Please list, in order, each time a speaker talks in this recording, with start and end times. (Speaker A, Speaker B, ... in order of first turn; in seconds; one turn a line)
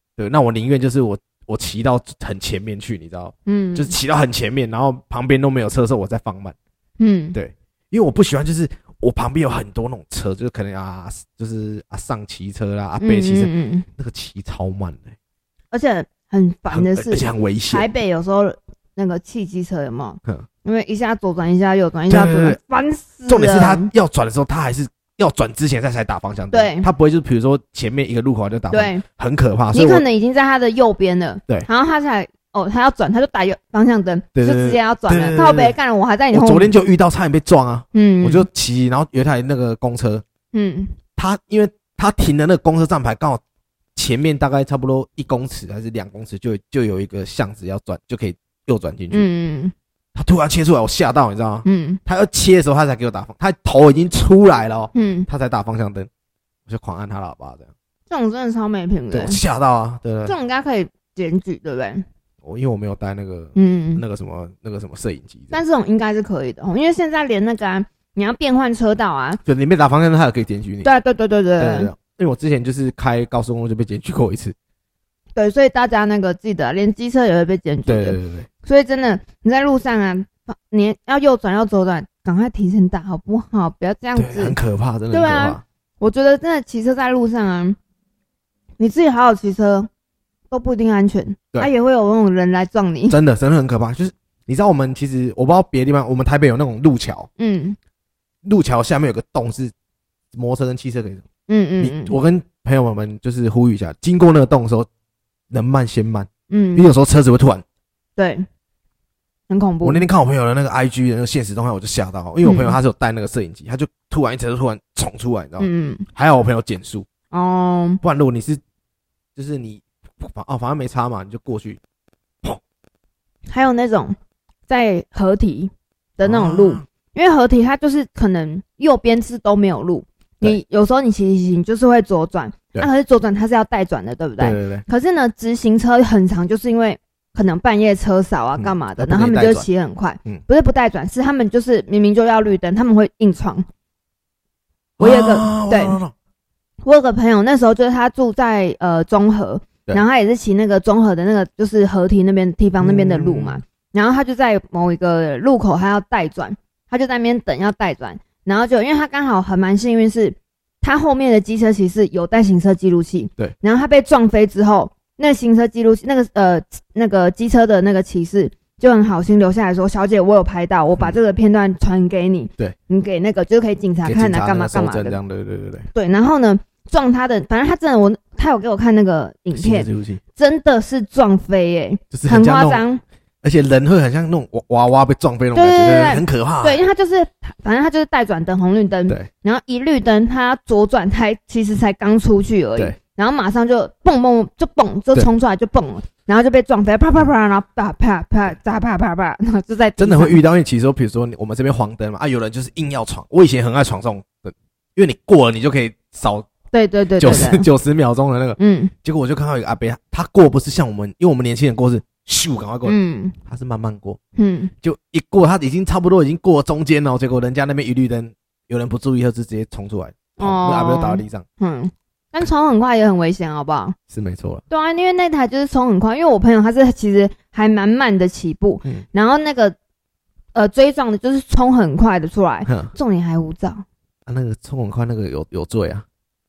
Speaker A: 0.2-6.5
Speaker B: 3.5-4.0
Speaker B: 7.0-7.4
Speaker A: 7.3-15.2
Speaker B: 13.0-13.9
Speaker B: 15.7-23.9
Speaker A: 16.7-17.9
Speaker A: 22.1-22.6
Speaker A: 23.3-30.0
Speaker B: 26.5-26.9
Speaker B: 28.7-29.0
Speaker B: 29.7-36.7
Speaker A: 34.4-35.8
Speaker A: 36.3-40.2
Speaker B: 37.9-38.5
Speaker B: 40.5-41.0
Speaker A: 41.2-43.4
Speaker A: 44.0-49.3
Speaker B: 49.1-49.7
Speaker A: 50.1-56.1
Speaker B: 51.6-52.0
Speaker B: 54.9-55.3
Speaker A: 56.7-57.7
Speaker B: 58.1-59.4
Speaker A: 59.1-60.4
Speaker B: 60.3-62.0
Speaker A: 62.4-65.6
Speaker B: 63.6-64.0
Speaker B: 65.5-69.4
Speaker A: 69.5-70.9
Speaker B: 70.8-71.9
Speaker A: 71.6-74.5
Speaker B: 75.4-84.6
Speaker A: 77.9-78.5
Speaker A: 84.2-85.6
Speaker B: 85.1-87.8
Speaker B: 88.8-89.9
Speaker B: 90.5-93.2
Speaker A: 93.1-97.3
Speaker B: 97.4-97.8
Speaker A: 98.4-99.7
Speaker A: 100.3-101.2
Speaker B: 101.5-102.2
Speaker A: 101.8-104.9
Speaker A: 105.5-107.6
Speaker B: 106.5-106.9
Speaker B: 108.2-108.5
Speaker B: 109.5-110.0
Speaker A: 109.8-117.1
Speaker B: 112.4-112.8
Speaker B: 115.6-116.1
Speaker B: 117.3-118.0
Speaker A: 118.0-118.6
Speaker A: 119.4-121.8
Speaker B: 123.5-124.2
Speaker B: 124.7-143.7
Speaker A: 126.2-126.8
Speaker A: 134.4-134.8
Speaker A: 138.6-139.7
Speaker A: 145.0-146.1
Speaker B: 145.0-146.0
Speaker B: 146.8-175.2
Speaker A: 152.8-153.6
Speaker A: 174.0-175.9
Speaker B: 175.9-183.0
Speaker A: 179.6-180.2
Speaker A: 182.1-182.8
Speaker A: 183.4-186.8
Speaker B: 185.5-200.4
Speaker A: 200.0-206.5
Speaker B: 206.7-207.7
Speaker A: 207.2-214.2
Speaker B: 208.6-208.9
Speaker B: 212.8-213.4
Speaker B: 214.4-214.7
Speaker A: 214.8-221.4
Speaker B: 220.4-224.0
Speaker A: 224.1-224.6
Speaker B: 224.7-229.8
Speaker B: 230.6-233.8
Speaker A: 232.7-232.9
Speaker A: 234.3-236.1